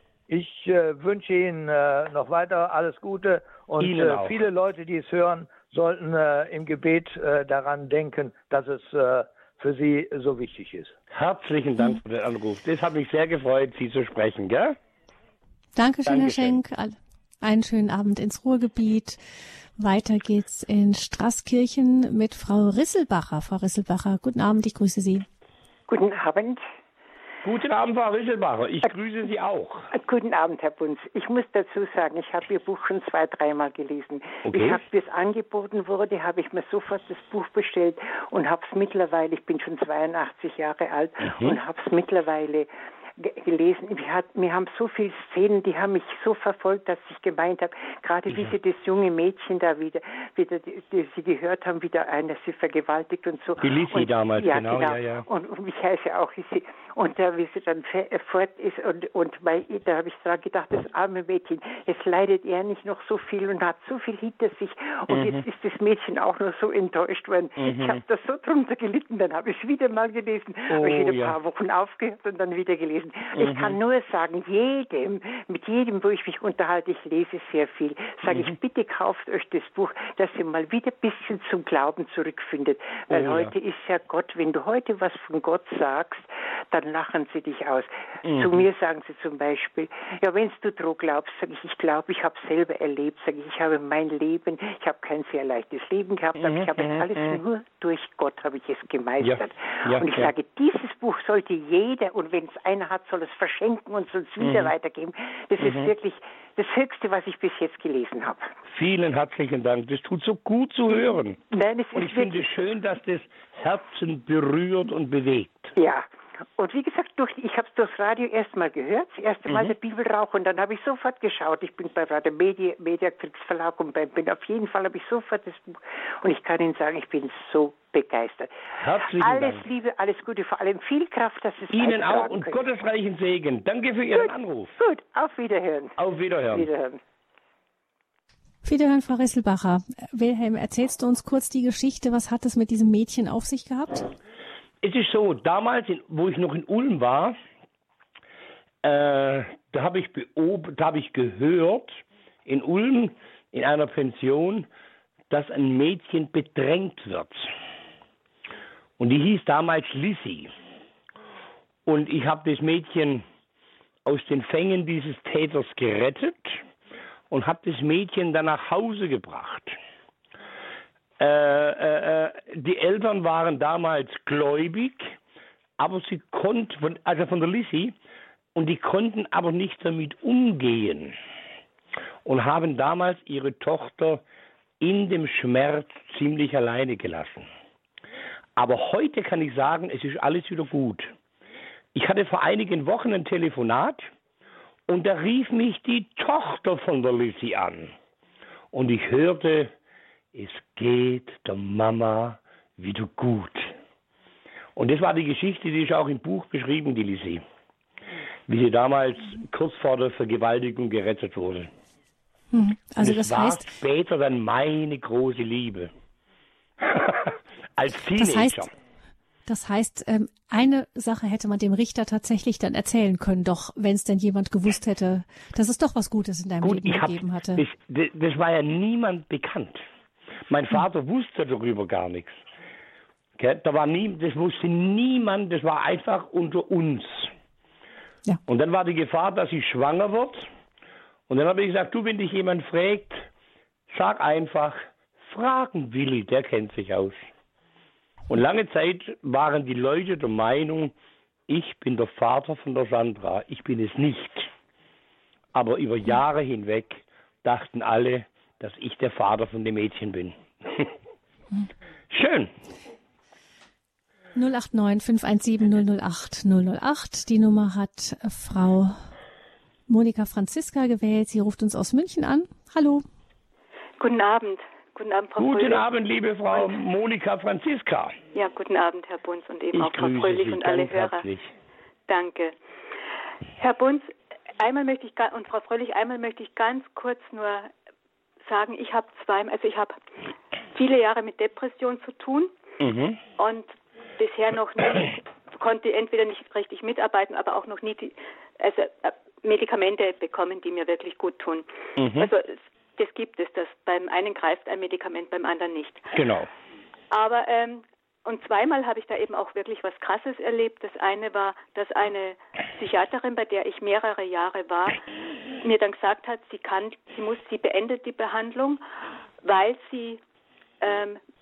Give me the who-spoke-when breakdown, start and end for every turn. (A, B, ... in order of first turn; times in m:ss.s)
0:00.3-0:10.9 A
0:03.8-0:04.4 B
0:11.1-0:14.8 B
0:15.8-0:19.2 C
0:16.0-0:16.6 B
0:19.8-0:25.2 C
0:25.9-0:26.6 D
0:27.4-0:29.9 B
0:29.9-1:48.5 D
0:34.4-0:34.8 B
0:41.2-0:41.6 B
0:48.3-0:48.5 B
0:53.6-0:55.2 B
1:05.1-1:05.4 B
1:07.6-1:08.0 B
1:10.7-1:11.4 B
1:13.3-1:13.8 B
1:18.3-1:18.6 B
1:23.1-1:23.5 B
1:28.2-1:28.6 B
1:36.4-1:37.4 B
1:39.2-1:40.3 B
1:44.4-1:44.7 B
1:45.6-1:45.9 B
1:48.7-1:51.4 B
1:50.9-1:52.5 D
1:51.9-1:55.7 B
1:55.8-2:12.7 D
1:59.5-1:59.7 B
2:08.7-2:09.7 B
2:11.7-2:14.7 B
2:14.1-2:16.0 D
2:16.0-2:16.7 B
2:16.5-2:17.0 D
2:18.6-2:24.1 C
2:24.8-2:27.4 B
2:28.8-2:34.7 B
2:35.3-2:37.5 B
2:39.0-2:40.5 B
2:41.8-2:43.2 B
2:44.0-2:46.6 B
2:47.3-2:49.8 B
2:51.2-2:55.1 B
2:55.8-2:58.0 B
2:58.5-3:01.1 B
3:02.2-3:04.2 B
3:04.8-3:07.5 B
3:08.6-3:11.1 B
3:11.9-3:14.1 B
3:14.9-3:17.9 B
3:18.7-3:19.7 B
3:20.3-3:23.7 B
3:24.8-3:27.4 B
3:28.5-3:31.7 B
3:32.5-3:33.7 C
3:33.0-3:35.9 B
3:36.8-3:38.7 B
3:38.2-3:38.7 C
3:39.4-3:47.6 C
3:46.6-3:49.8 B
3:50.5-3:52.4 B
3:53.4-3:57.3 B
3:58.5-4:00.5 B
4:01.3-4:03.3 B
4:03.9-4:07.3 B
4:08.3-4:10.9 B
4:11.5-4:14.5 B
4:15.5-4:20.9 B
4:22.1-4:22.5 B
4:24.3-4:29.1 C
4:29.9-4:33.0 C
4:34.0-4:35.8 E
4:35.4-4:38.2 B
4:38.3-4:41.2 E
4:39.7-4:41.5 B
4:42.1-4:42.5 E
4:43.6-4:47.7 E
4:48.4-4:50.0 E
4:50.7-4:52.5 E
4:52.8-4:53.2 B
4:53.4-5:06.1 E
5:02.0-5:02.3 B
5:06.1-5:06.5 B
5:07.1-5:15.0 E
5:15.6-5:18.8 E
5:19.4-5:20.2 E
5:20.8-5:21.2 E